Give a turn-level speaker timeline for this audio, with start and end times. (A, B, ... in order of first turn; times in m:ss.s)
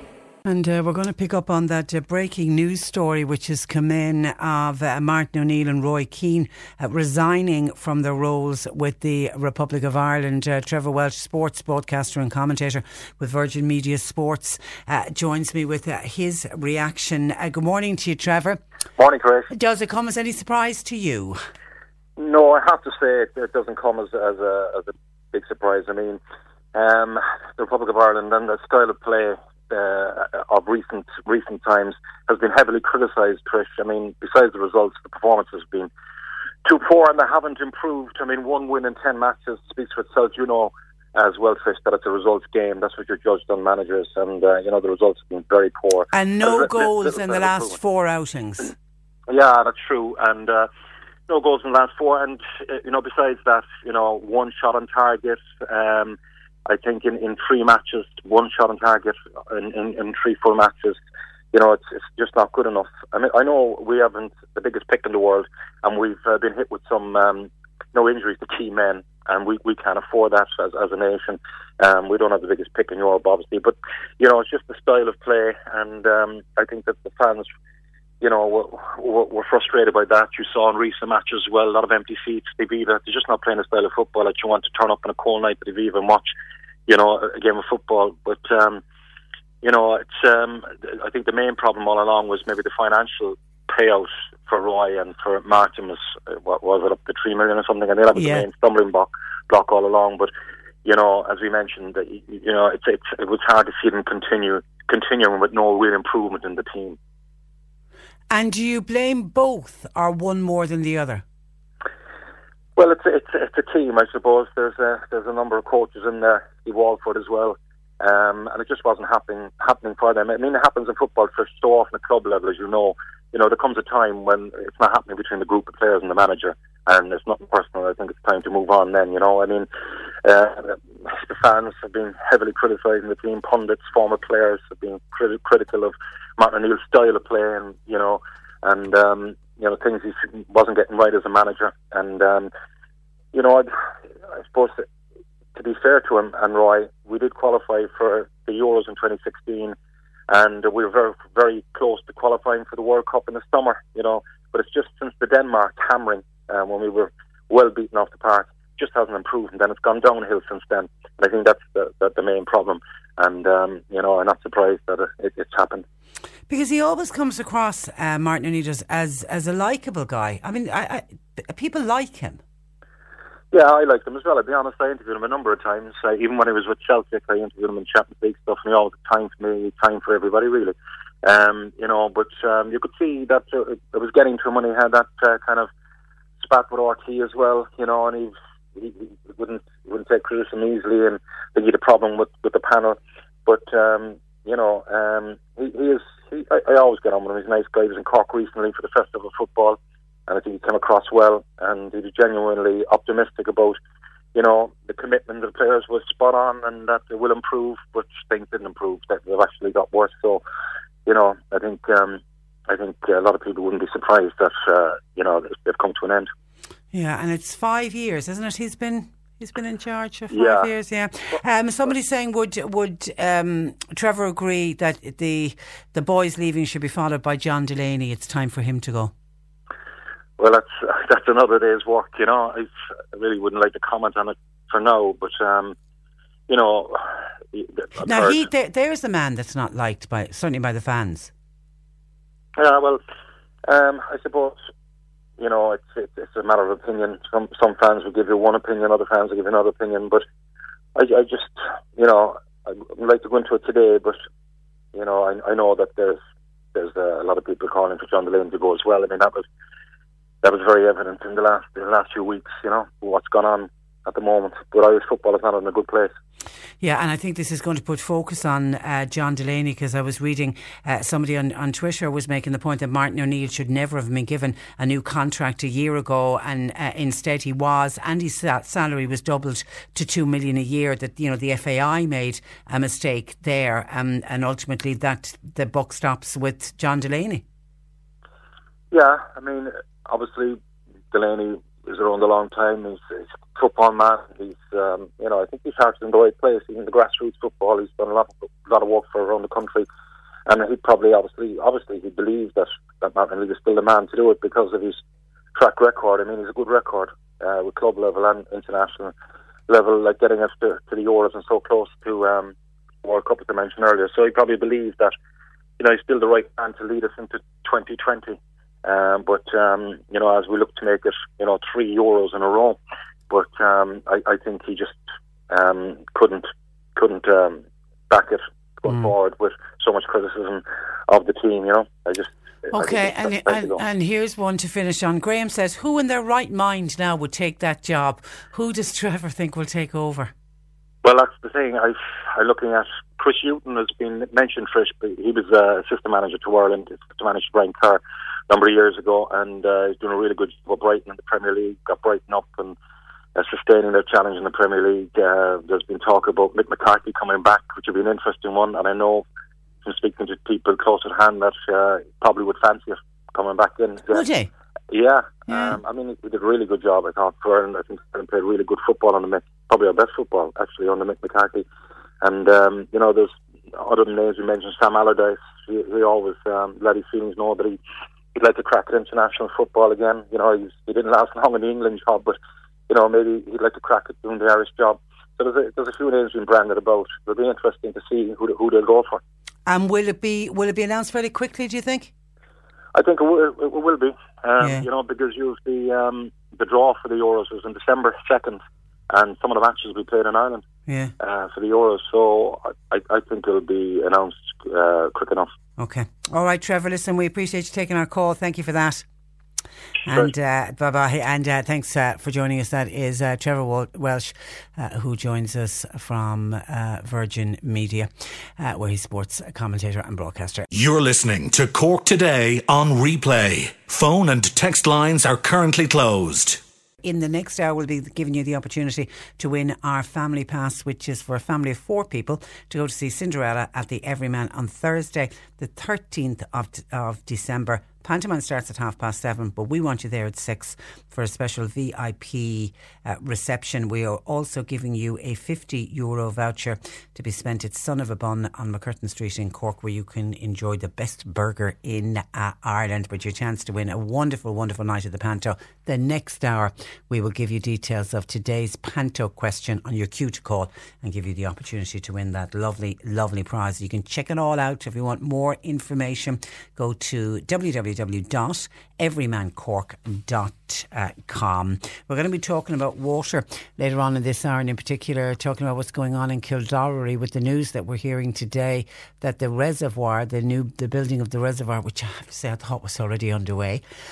0:00.4-0:18.6 A
0:19.0-0:19.5 B
0:19.5-0:21.4 A
0:22.2-0:26.2 B
0:26.7-0:35.9 B
0:36.6-0:47.7 B
0:46.1-0:48.7 A
0:49.3-0:50.7 B
0:51.3-1:01.0 B
1:01.5-1:17.5 B
1:18.2-1:26.3 B
1:26.9-1:28.8 B
1:29.6-1:40.3 B
1:38.1-1:38.5 A
1:40.8-1:47.0 B
1:48.3-1:51.2 A
1:52.8-2:09.7 B
2:10.2-2:22.5 B
2:23.3-2:23.7 B
2:24.4-2:24.8 B
2:25.5-2:29.7 B
2:30.3-2:45.8 B
2:46.5-2:52.4 A
2:53.5-3:05.7 B
3:06.4-3:23.8 B
3:24.3-3:30.4 B
3:31.0-3:36.3 B
3:36.9-3:49.1 A
3:40.3-3:40.7 B
3:50.4-3:55.7 B
3:56.5-3:57.0 B
3:57.5-3:58.4 B
3:58.0-4:01.3 A
4:02.6-4:03.0 B
4:03.7-4:04.6 B
4:05.4-4:10.2 B
4:11.0-4:14.2 B
4:14.9-4:16.2 B
4:16.7-4:19.4 B
4:20.4-4:26.1 B
4:26.8-4:47.4 A
4:48.9-4:50.6 B
4:51.1-4:59.9 B
5:00.5-5:05.0 B
5:05.5-5:09.1 B
5:09.7-5:15.1 B
5:15.8-5:22.8 B
5:23.3-5:25.0 B
5:25.5-5:26.4 B
5:27.0-5:33.8 B
5:32.7-5:40.3 A
5:41.0-5:52.8 B
5:53.4-5:59.2 B
5:59.8-6:04.2 B
6:04.1-6:04.5 A
6:04.9-6:11.6 B
6:05.5-6:05.8 A
6:12.2-6:17.8 B
6:18.3-6:22.4 B
6:22.9-6:29.2 B
6:29.7-6:32.1 A
6:32.9-6:38.6 B
6:34.6-6:34.9 A
6:39.1-6:40.6 B
6:40.9-6:41.1 A
6:41.2-6:45.5 B
6:45.8-6:49.0 A
6:50.0-7:00.7 A
7:00.7-7:06.6 C
7:07.0-8:03.8 A